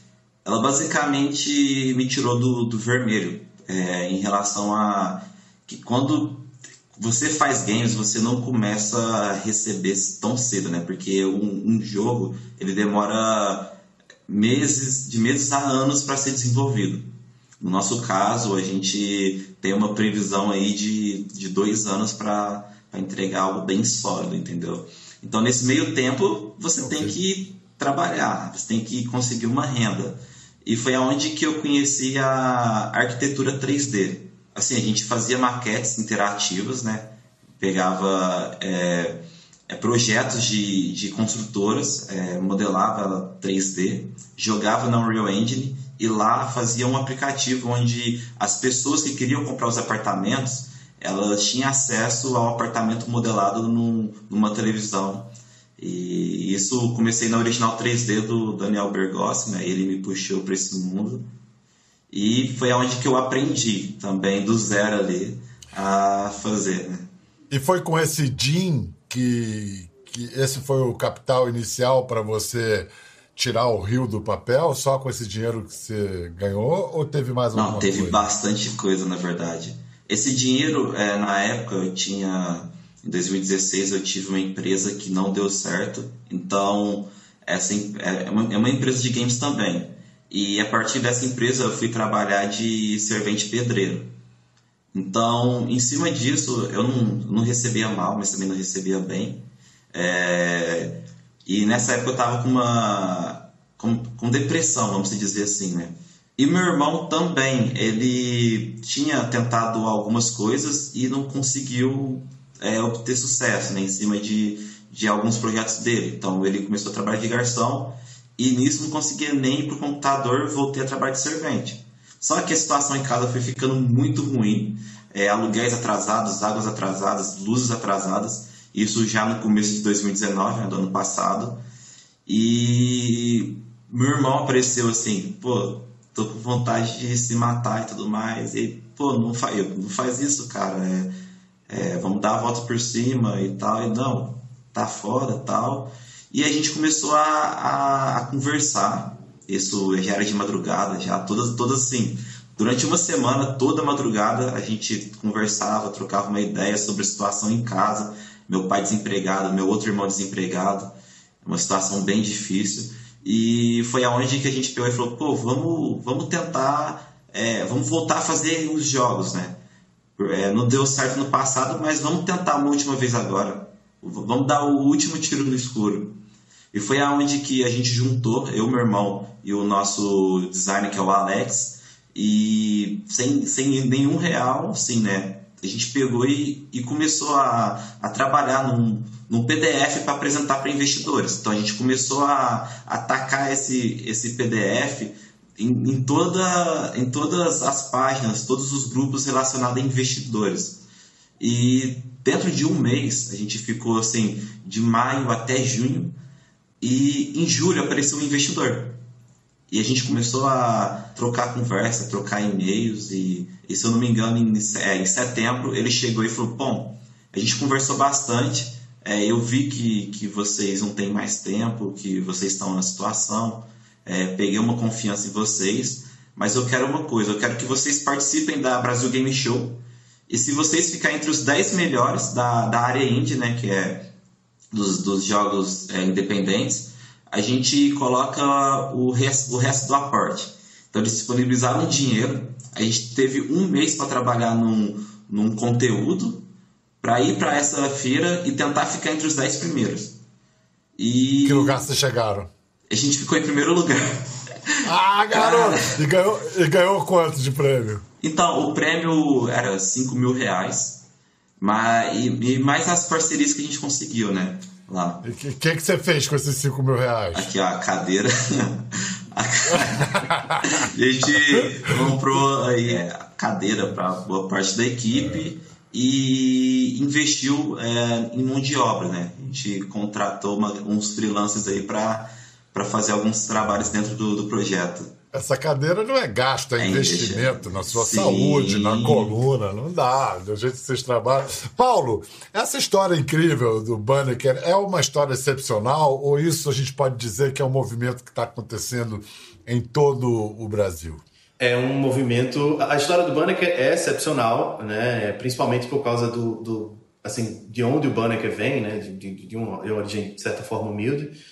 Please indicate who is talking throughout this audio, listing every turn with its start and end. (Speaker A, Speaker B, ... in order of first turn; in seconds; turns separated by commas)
Speaker A: 0.4-13.7, Speaker A: 14.3-61.3, Speaker B: 26.8-27.1, Speaker A: 62.1-67.1, Speaker B: 67.5-78.3, Speaker A: 77.5-94.1, Speaker A: 94.9-131.6, Speaker A: 132.2-141.1, Speaker A: 141.7-169.6, Speaker A: 170.2-176.2, Speaker A: 176.7-200.8, Speaker A: 201.4-206.2, Speaker A: 206.8-209.0, Speaker A: 209.7-234.1, Speaker A: 234.7-246.5, Speaker A: 247.0-250.2, Speaker A: 250.9-251.8, Speaker B: 251.4-252.5, Speaker A: 252.9-254.7, Speaker B: 254.8-258.0, Speaker A: 255.3-255.9, Speaker A: 258.2-261.0, Speaker A: 261.6-265.2, Speaker B: 265.2-267.5, Speaker A: 267.3-285.1, Speaker B: 269.7-270.9, Speaker B: 285.3-301.2, Speaker A: 286.8-289.4, Speaker C: 301.6-311.4